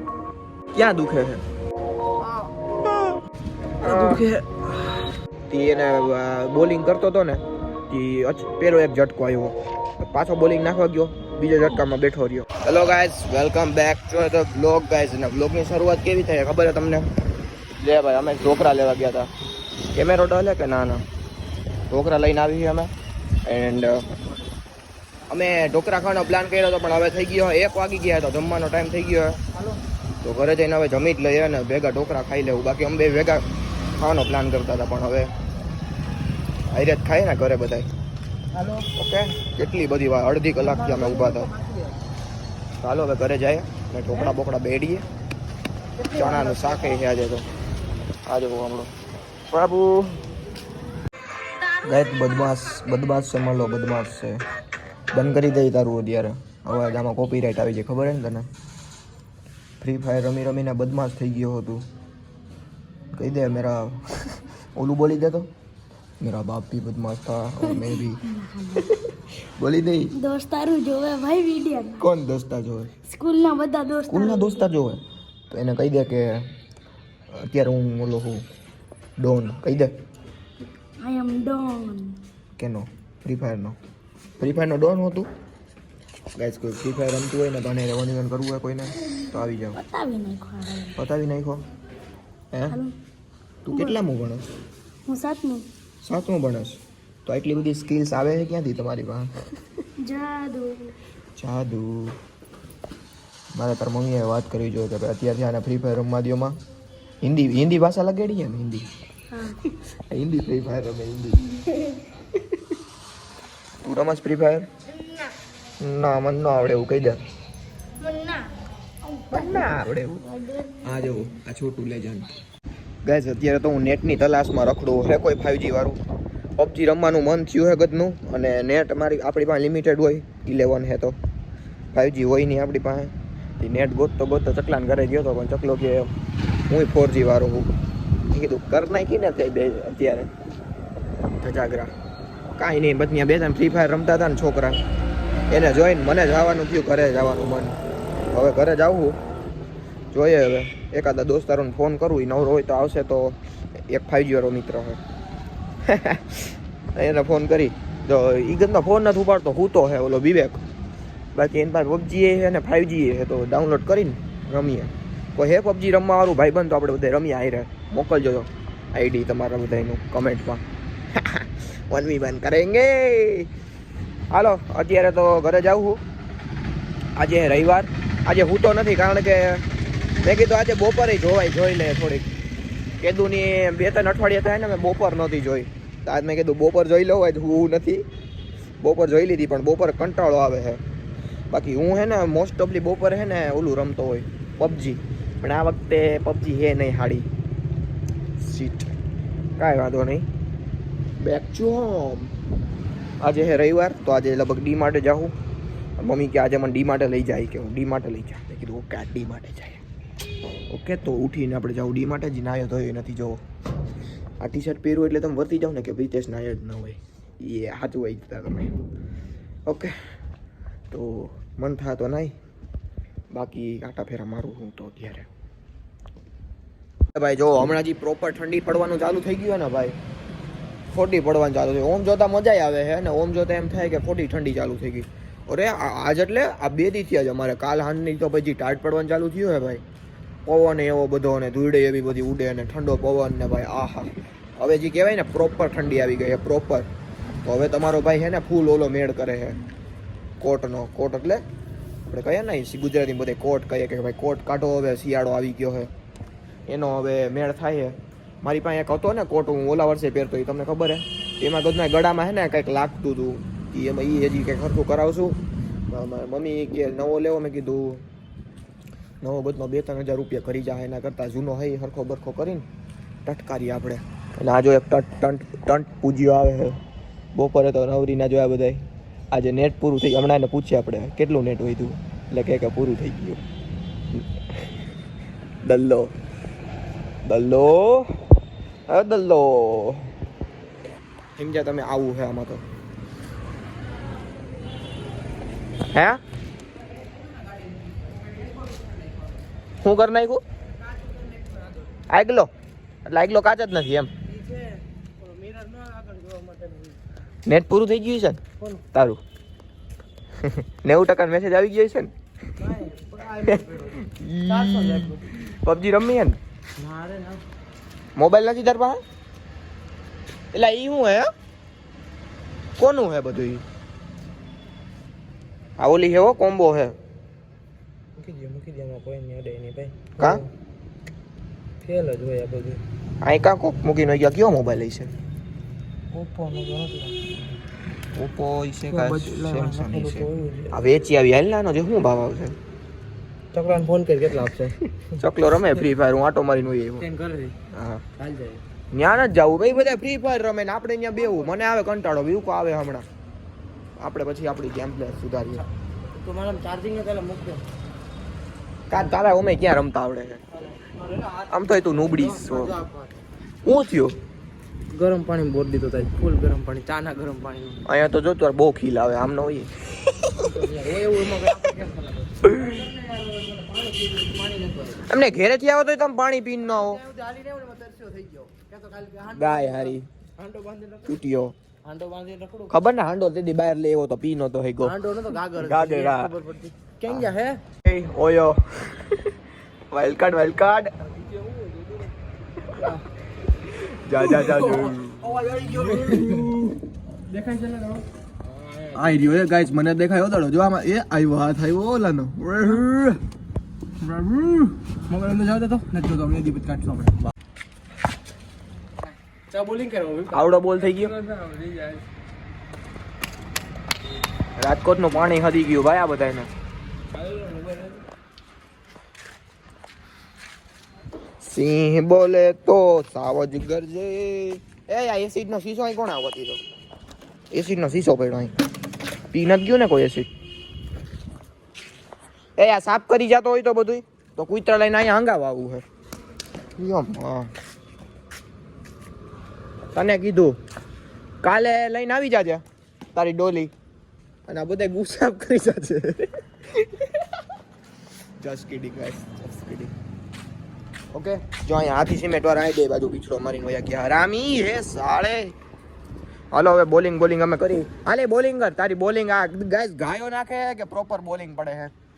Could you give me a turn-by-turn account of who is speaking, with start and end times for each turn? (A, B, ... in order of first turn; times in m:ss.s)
0:00.7-0:01.4 A
0:03.8-0:04.3 A
0:03.8-0:04.7 B
0:05.5-0:17.1 A
0:17.8-0:19.3 A
0:19.9-0:21.1 A
0:21.9-0:22.9 A
0:23.5-0:24.0 A
0:25.3-0:29.4 A
0:29.5-0:29.8 B
0:30.2-0:33.4 A
0:34.0-0:35.3 A
0:36.7-0:37.9 A
0:38.5-0:38.9 B
0:39.0-0:41.5 A
0:40.6-0:42.0 B
0:42.8-0:45.0 A
0:46.0-0:47.0 B
0:46.2-0:47.5 A
0:48.3-0:48.9 A
0:49.5-0:50.2 A
0:51.8-0:54.4 A
0:55.1-0:58.5 A
0:59.8-1:01.9 A
1:03.1-1:05.5 A
1:06.2-1:08.3 A
1:07.7-1:08.9 C
1:08.8-1:10.2 A
1:10.1-1:12.1 C
1:12.0-1:13.0 A
1:13.1-1:14.7 C
1:14.1-1:16.5 A
1:17.3-1:18.4 A
1:19.2-1:19.9 A
1:21.0-1:22.2 C
1:22.6-1:23.8 A
1:24.4-1:25.3 A
1:26.4-1:29.8 A
1:29.7-1:31.0 C
1:31.0-1:31.6 A
1:32.5-1:32.8 A
1:32.7-1:33.0 C
1:33.7-1:34.5 A
1:33.7-1:34.0 C
1:35.1-1:35.7 C
1:36.0-1:39.3 A
1:40.0-1:41.0 C
1:41.4-1:42.2 A
1:43.5-1:46.6 A
1:47.2-1:48.9 A
1:49.3-1:49.6 C
1:50.1-1:51.6 A
1:51.7-1:52.0 C
1:53.8-1:54.7 A
1:55.8-1:57.2 A
1:58.0-1:59.7 C
1:59.3-2:02.3 A
2:00.2-2:00.8 C
2:03.0-2:06.0 A
2:06.6-2:11.2 A
2:11.9-2:16.1 A
2:16.7-2:17.7 A
2:18.3-2:20.3 A
2:21.4-2:21.9 A
2:22.6-2:24.8 A
2:25.5-2:27.8 A
2:28.3-2:29.2 A
2:30.1-2:33.4 A
2:33.9-2:35.0 A
2:35.8-2:40.6 A
2:41.4-2:53.5 A
2:54.3-2:56.0 A
2:57.2-2:59.6 A
3:00.2-3:02.3 A
3:03.0-3:08.0 A
3:08.8-3:10.8 A
3:11.5-3:17.3 A
3:18.4-3:19.0 A
3:19.6-3:20.3 A
3:21.2-3:22.3 A
3:23.2-3:25.3 A
3:26.0-3:29.8 A
3:30.7-3:33.4 A
3:34.4-3:38.7 A
3:39.7-3:40.0 A
3:40.9-3:42.3 A
3:43.3-3:45.3 A
3:47.1-3:50.0 A
3:50.9-3:59.8 A
4:00.5-4:06.9 A
4:07.4-4:09.6 A
4:10.4-4:11.4 A
4:12.1-4:15.9 A
4:16.7-4:28.0 A
4:29.2-4:32.6 A
4:33.2-4:36.8 A
4:37.3-4:43.4 A
4:45.6-4:46.1 A
4:47.2-4:48.1 A
4:48.9-4:50.1 A
4:51.4-4:52.6 A
4:55.9-4:56.2 A
4:59.8-5:00.4 A
5:02.1-5:02.5 A
5:03.0-5:04.1 A
5:04.3-5:07.0 B
5:07.5-5:08.4 A
5:08.9-5:09.2 A
5:10.4-5:12.1 A
5:12.6-5:15.2 B
5:13.4-5:16.4 A
5:16.8-5:17.4 B
5:18.2-5:19.0 A
5:20.5-5:21.3 A
5:22.8-5:23.6 A
5:25.8-5:27.0 A
5:28.2-5:30.5 B
5:30.2-5:30.4 A
5:31.8-5:32.8 B
5:33.2-5:35.1 A
5:36.1-5:37.5 B
5:38.1-5:42.6 A
5:38.9-5:40.8 B
5:43.5-5:45.2 B
5:45.2-5:47.0 A
5:47.0-5:47.6 B
5:47.7-5:48.0 A
5:48.2-5:48.6 B
5:48.9-5:53.1 A
5:54.0-5:55.6 A
5:56.1-5:57.6 B
5:58.9-6:00.4 A
6:00.7-6:03.1 B
6:01.5-6:02.8 A
6:03.6-6:04.2 A
6:04.9-6:07.8 B
6:07.8-6:09.7 A
6:10.4-6:15.1 B
6:15.1-6:17.0 A
6:16.7-6:21.2 B
6:19.3-6:20.1 A
6:21.0-6:21.6 A
6:21.8-6:22.7 B
6:22.7-6:26.3 A
6:24.8-6:27.6 B
6:27.1-6:27.3 A
6:27.8-6:29.4 A
6:29.9-6:30.9 A
6:32.7-6:33.0 B
6:33.8-6:36.8 A
6:34.2-6:36.5 B
6:37.3-6:38.0 B
6:38.9-6:43.2 A
6:44.1-6:47.2 B
6:49.5-6:50.5 B
6:50.3-6:51.2 A
6:54.6-6:56.5 A
7:01.4-7:06.6 A
7:07.5-7:08.5 A
7:09.3-7:10.3 A
7:12.6-7:15.8 A
7:16.8-7:17.5 A
7:19.9-7:20.6 A
7:21.4-7:22.6 A
7:23.2-7:23.7 A
7:24.5-7:27.1 A
7:28.4-7:29.9 A
7:31.1-7:35.6 A
7:36.5-7:41.9 A